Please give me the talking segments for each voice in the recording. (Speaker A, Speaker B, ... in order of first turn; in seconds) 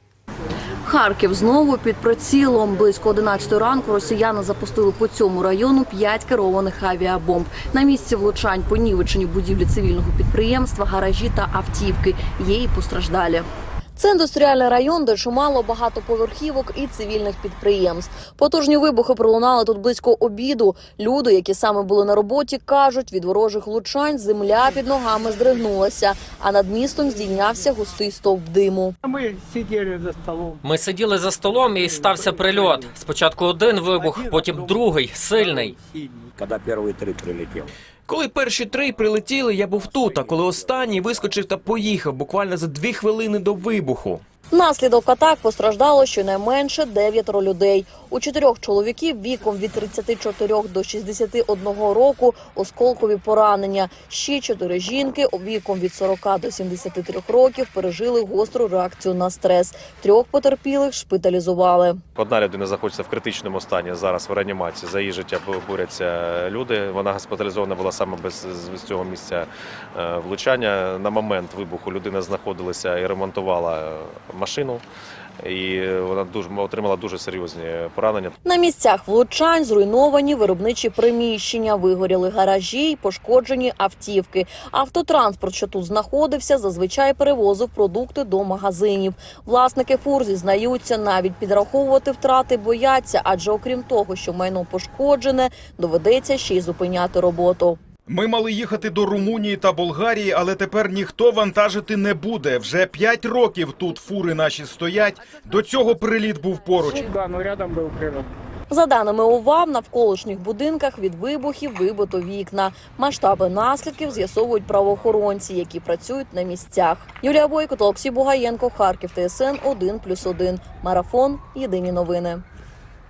Speaker A: 0.8-28.9, 44.5-62.0, 78.4-97.8, 108.7-122.4
Speaker B: 29.7-30.4, 106.9-108.3
Speaker C: 30.6-35.8
Speaker D: 38.1-44.2
Speaker E: 62.1-74.8, 75.4-78.3
Speaker F: 98.1-107.1